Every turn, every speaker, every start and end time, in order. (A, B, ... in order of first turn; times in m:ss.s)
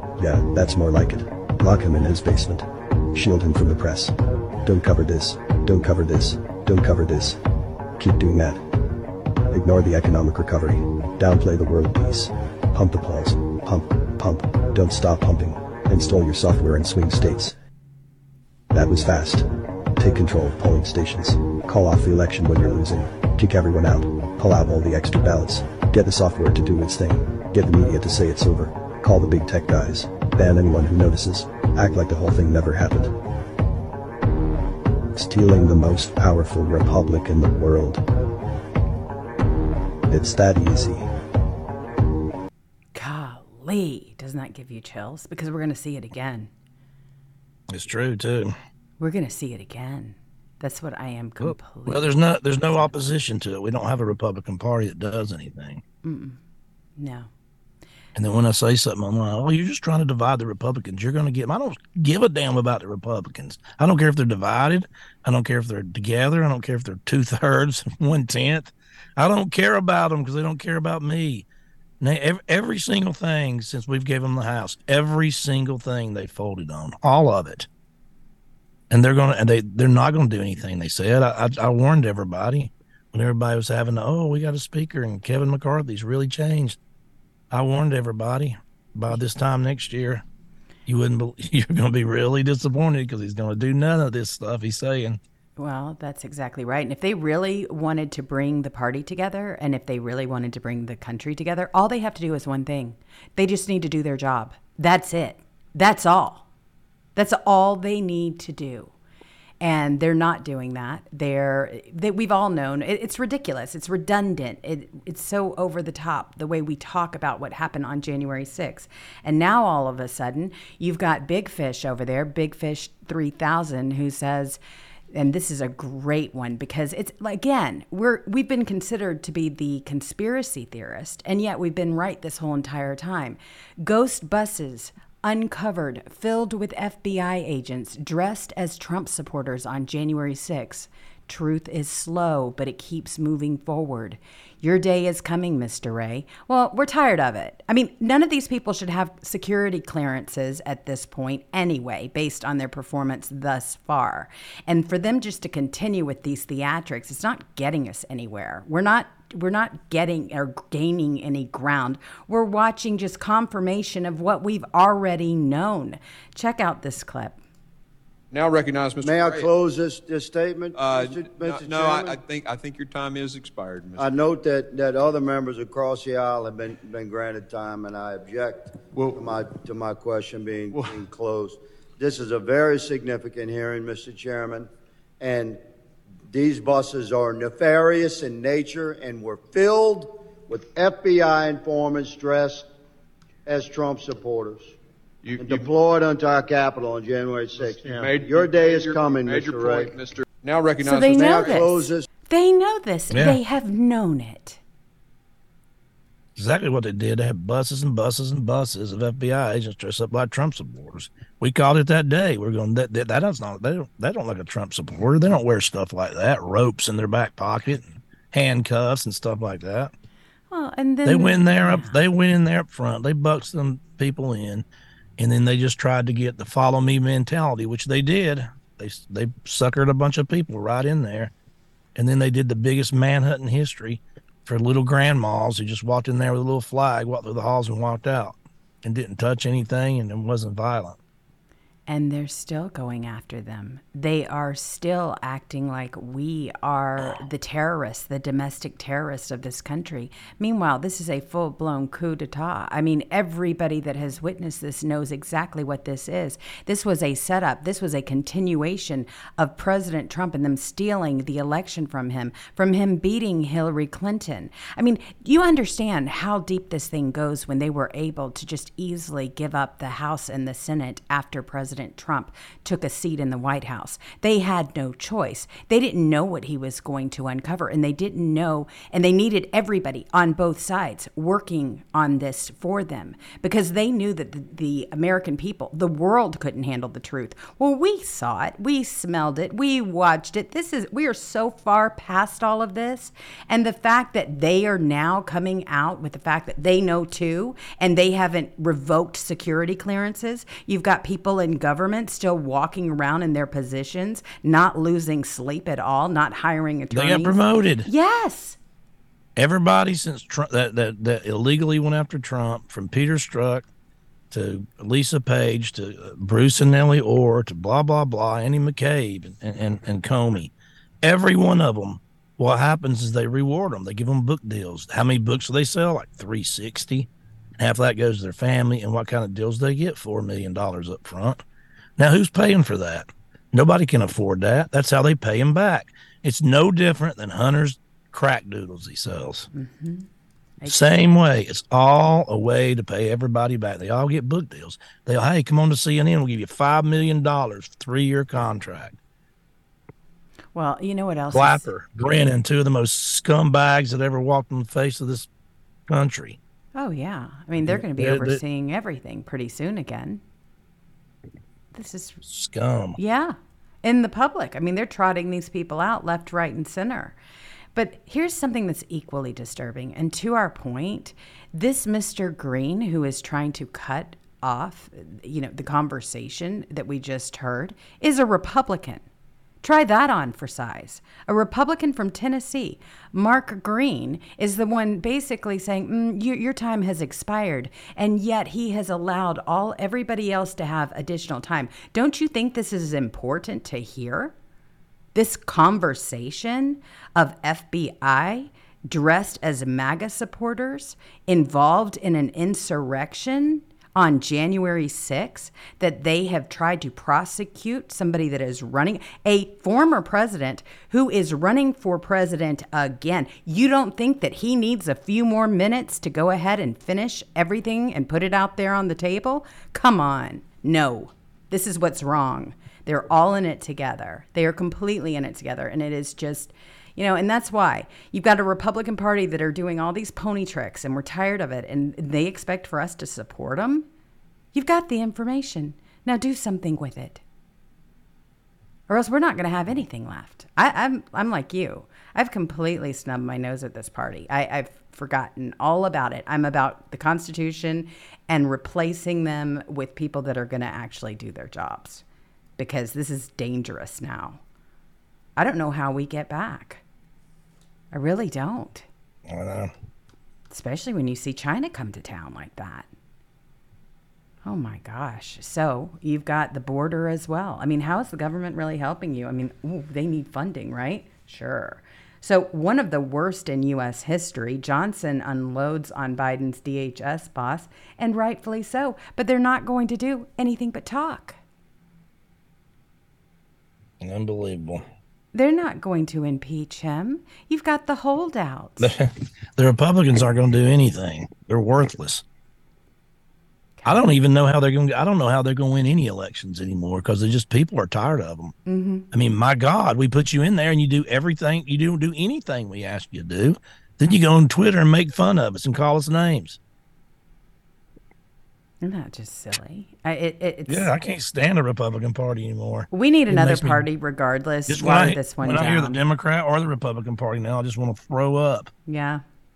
0:00.2-0:07.4 A
0:08.0-0:08.6 A
0:09.5-0:17.6 A
0:18.7-0:33.1 A
0:35.1-0:38.0 A
0:40.1-0:41.1 A
0:43.0-0:46.5 B
0:47.7-0:48.6 C
0:49.0-0:53.0 B
0:51.4-0:55.8 C
0:56.0-0:56.4 B
0:57.0-0:57.3 B
0:58.1-1:11.5 C
1:12.0-1:17.7 C
1:18.9-1:26.8 C
1:27.5-1:30.2 C
1:30.9-1:35.2 C
1:35.6-1:46.5 B
1:47.2-1:48.9 B
1:49.6-2:04.6 B
2:05.1-2:47.4 B
2:48.3-2:49.5 D
2:49.0-2:52.2 E
2:50.8-2:54.1 D
2:54.0-3:04.7 E
2:58.9-2:59.2 D
3:00.7-3:01.0 D
3:05.2-3:05.6 E
3:06.3-3:12.7 E
3:13.5-3:14.8 E
3:15.2-3:15.7 D
3:15.4-3:20.0 E
3:17.6-3:21.8 D
3:20.8-3:24.6 B
3:21.1-3:22.1 E
3:23.1-3:23.4 C
3:26.4-3:39.9 C
3:40.5-3:42.0 B
3:41.0-3:44.6 C
3:45.2-3:51.3 C
3:52.0-4:01.0 C
4:01.9-5:08.6 B
5:06.9-5:07.9 C
5:09.4-5:13.7 C
5:14.3-5:20.5 C
5:21.0-5:31.4 C
5:32.0-5:39.5 C
5:39.5-5:40.1 B
5:40.7-5:49.0 C
5:50.6-5:51.7 B
5:51.3-5:55.3 C
5:55.9-5:56.4 C
5:56.8-6:00.2 B
5:57.6-5:58.4 C
6:01.7-6:02.2 B
6:02.2-6:03.0 C
6:03.0-6:07.2 B
6:07.8-6:19.0 B
6:19.6-6:34.3 B
6:35.1-7:13.9 B
7:14.5-7:17.2 B
7:18.9-7:32.0 B
7:32.6-7:34.4 B
7:35.4-7:36.8 B
7:37.9-7:38.9 B
7:39.3-7:39.7 C
7:40.5-7:42.9 B
7:44.4-8:01.4 B
8:04.0-8:04.8 C
8:05.3-8:08.9 B
8:08.8-8:12.2 C
8:13.8-8:14.1 B
8:13.9-8:18.5 C
8:18.7-8:19.1 B
8:19.1-8:26.6 C
8:28.8-8:30.9 B
8:30.7-8:33.8 C
8:32.9-8:36.0 B
8:34.7-8:38.7 C
8:38.9-8:39.2 B